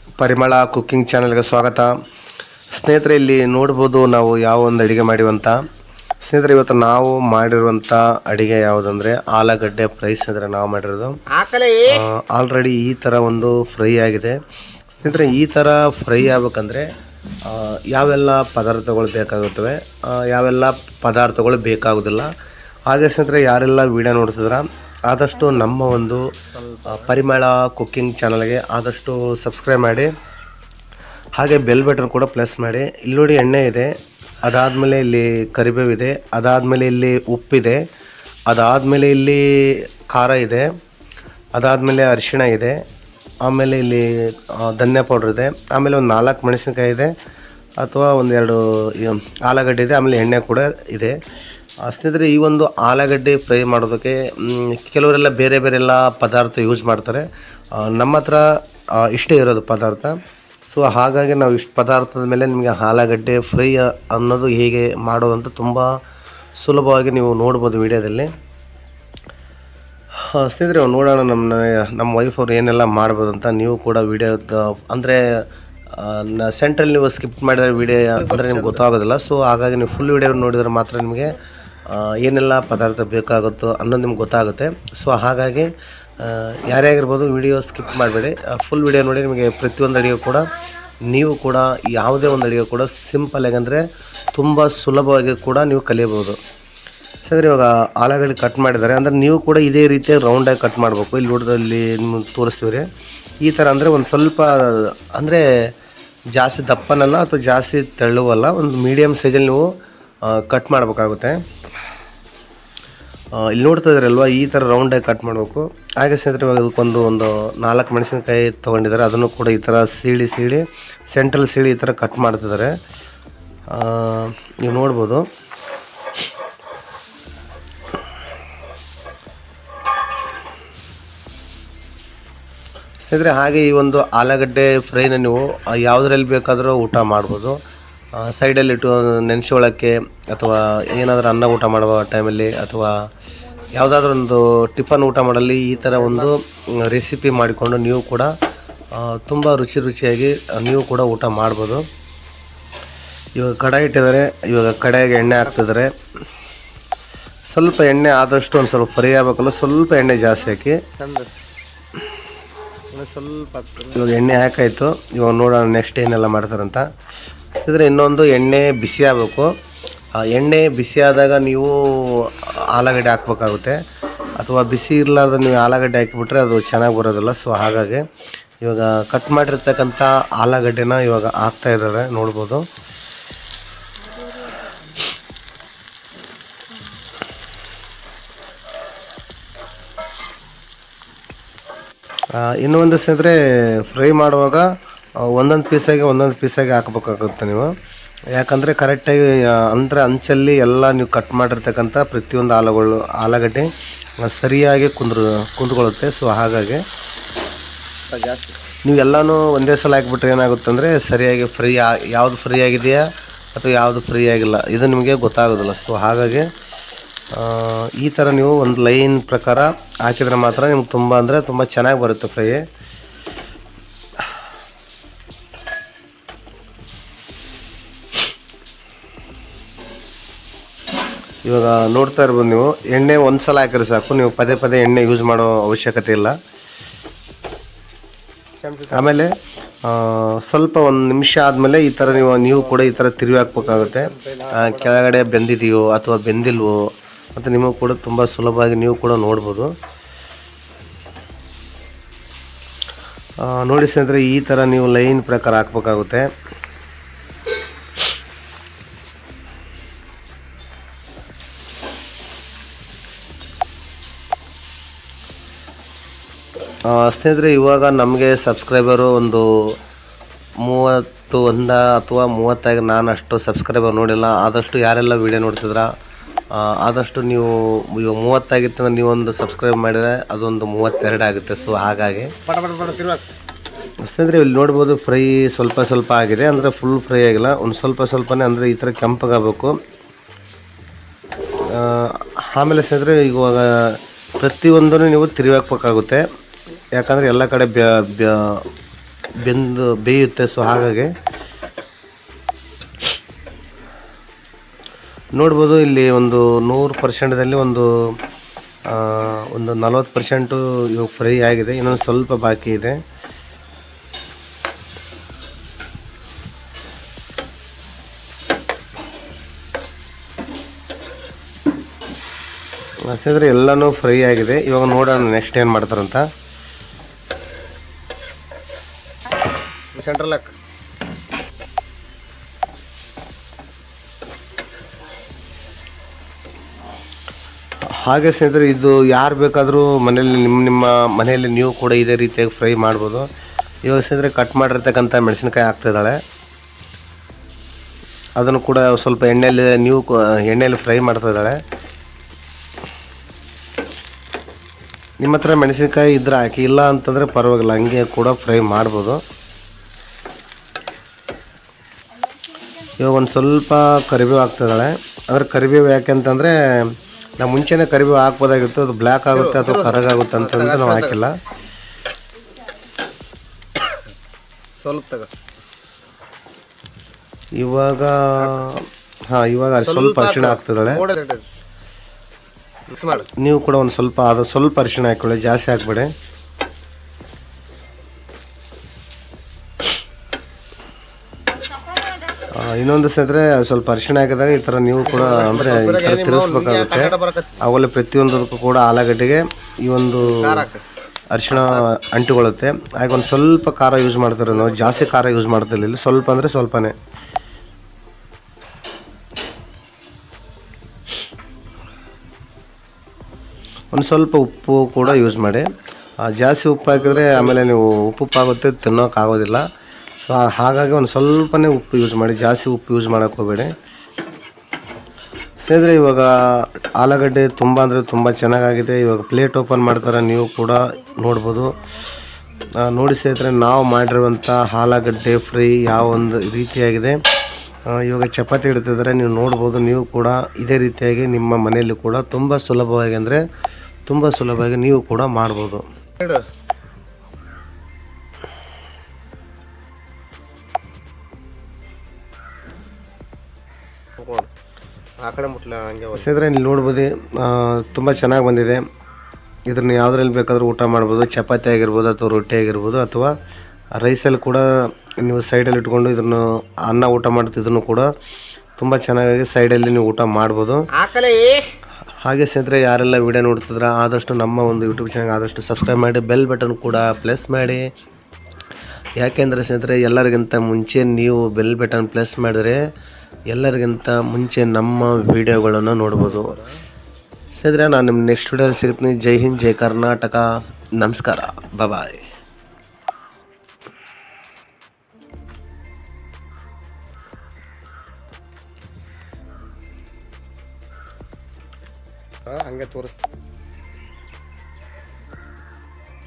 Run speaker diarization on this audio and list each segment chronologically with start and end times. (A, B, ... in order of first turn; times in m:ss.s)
0:00.2-0:01.9 A
0:02.7-0:05.6 A
0:06.2-0:11.2 A
0:11.3-0:12.0 B
0:11.9-0:14.4 A
0:15.0-0:16.9 A
0:17.4-0:22.3 A
0:22.9-0:26.3 A
0:26.7-0:27.0 B
0:26.8-0:30.1 A
0:31.4-0:37.8 A
0:38.5-0:40.7 A
0:41.6-0:42.8 A
0:43.4-0:47.1 A
0:47.8-0:51.2 A
0:51.8-1:06.0 A
1:06.6-1:08.3 A
1:10.1-1:30.4 A
1:18.2-1:18.8 B
1:31.0-1:33.8 A
1:34.3-1:36.4 A
1:37.2-1:42.8 A
1:43.4-1:45.7 A
1:46.3-1:49.7 A
1:50.2-1:51.4 A
1:53.4-2:02.7 A
2:03.7-2:05.2 A
2:13.0-2:17.6 A
2:18.2-2:23.0 A
2:23.6-2:28.3 A
2:25.8-2:26.3 B
2:28.9-2:31.8 A
2:33.4-2:35.9 A
2:37.5-2:40.8 A
2:40.9-2:41.3 B
2:42.9-2:44.0 B
2:43.9-2:46.9 A
2:47.6-2:49.5 A
2:50.2-2:53.8 A
2:54.4-2:58.0 A
2:58.6-3:02.6 A
3:12.3-3:14.7 A
3:15.2-3:17.7 A
3:18.3-3:26.8 A
3:28.1-3:28.7 B
3:28.8-3:36.5 A
3:37.3-3:42.6 A
3:51.4-3:56.4 A
3:58.6-3:59.2 B
3:58.9-4:09.7 A
4:02.2-4:05.3 B
4:13.4-4:16.3 A
4:26.8-4:29.7 A
4:30.6-4:35.9 A
4:36.5-4:42.4 A
4:42.4-4:43.2 B
4:44.0-4:49.8 A
4:51.6-4:56.2 A
4:56.9-4:58.6 A
4:59.4-5:01.1 A
5:05.4-5:08.1 A
5:08.9-5:13.0 A
5:23.1-5:26.3 A
5:29.9-5:30.5 B
5:37.9-5:43.3 A
5:43.8-5:46.2 A
5:48.4-5:51.6 A
5:55.2-5:59.2 A
6:03.0-6:11.3 A
6:09.3-6:11.2 B
6:14.7-6:15.3 B
6:17.6-6:21.0 A
6:19.8-6:21.4 B
6:22.9-6:23.3 B
6:23.1-6:26.1 A
6:32.5-6:40.7 A
6:35.0-6:37.6 B
6:40.2-6:40.8 B
6:41.3-6:46.9 A
6:41.5-6:41.8 B
6:44.5-6:45.0 B
6:53.9-6:55.7 A
6:56.2-6:59.6 A
6:57.2-6:57.4 B
7:00.2-7:03.7 A
7:05.6-7:11.9 A
7:12.8-7:17.2 A
7:17.9-7:23.4 A
7:24.1-7:25.8 A
7:26.2-7:26.4 B
7:34.2-7:34.5 B
7:35.2-7:36.3 B
7:36.1-7:38.8 A
7:39.7-7:43.3 A
7:44.0-7:48.1 A
7:48.8-7:50.9 A
7:50.9-7:51.7 B
7:52.2-7:57.9 A
7:59.2-8:02.8 A
8:03.5-8:06.6 A
8:07.6-8:12.2 A
8:22.4-8:23.2 B